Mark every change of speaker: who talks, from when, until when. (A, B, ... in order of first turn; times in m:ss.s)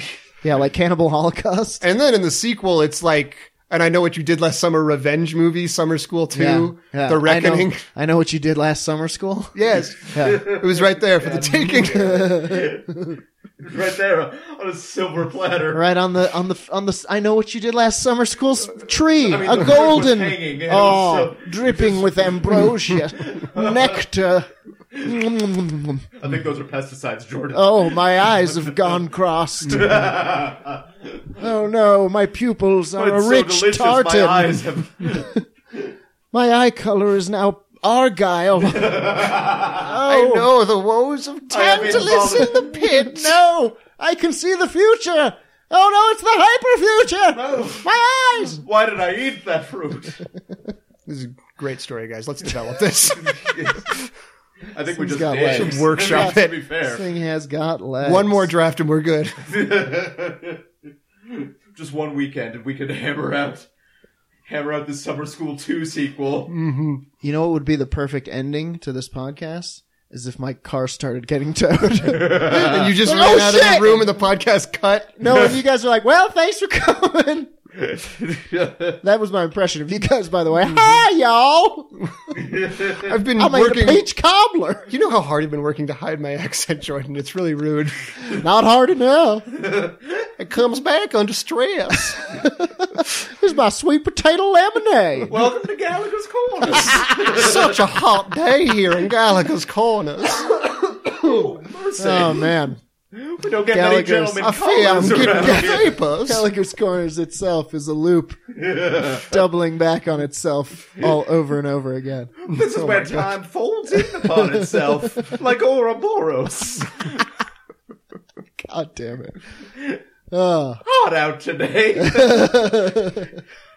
0:00.4-0:01.8 A
0:01.8-0:07.8 B
0:06.3-0:09.6 A
0:09.5-0:12.3 B
0:10.0-0:12.9 C
0:10.1-0:10.4 A
0:11.9-0:13.2 A
0:13.6-0:15.8 C
0:15.7-0:26.1 A
0:19.2-0:24.0 C
0:26.2-0:28.0 C
0:27.5-0:30.2 A
0:29.6-0:31.2 C
0:31.4-0:35.3 A
0:33.0-0:35.9 C
0:36.3-0:40.5 A
0:38.7-0:39.8 C
0:40.1-0:43.4 B
0:41.5-0:42.7 C
0:41.6-0:48.6 A
0:47.3-0:47.8 C
0:48.6-0:50.2 C
0:51.0-0:53.8 B
0:53.2-0:54.1 C
0:54.7-0:57.0 C
0:54.9-0:58.5 A
0:55.4-0:56.6 B
0:58.0-0:59.4 B
0:59.4-1:00.6 C
1:01.3-1:03.7 C
1:04.4-1:06.5 C
1:06.5-1:07.0 B
1:07.2-1:14.0 A
1:12.0-1:12.9 C
1:12.4-1:15.2 B
1:15.2-1:17.5 A
1:17.8-1:19.0 C
1:19.0-1:22.1 A
1:22.3-1:23.0 C
1:23.0-1:24.0 B
1:23.4-1:24.9 A
1:24.9-1:28.1 B
1:28.3-1:29.5 A
1:29.7-1:29.9 C
1:30.4-1:32.2 B
1:32.2-1:35.4 A
1:35.3-1:37.8 C
1:36.7-1:37.4 A
1:37.3-1:41.5 B
1:40.2-1:42.5 C
1:42.0-1:42.8 A
1:43.1-1:45.9 C
1:43.7-1:44.5 A
1:44.4-1:46.4 B
1:45.3-1:52.3 A
1:48.6-1:49.3 C
1:52.4-1:57.2 C
1:52.5-1:53.3 B
1:54.0-1:55.0 A
1:58.6-1:59.4 A
1:59.7-2:00.0 C
2:00.3-2:00.8 A
2:00.8-2:02.7 C
2:02.0-2:03.3 A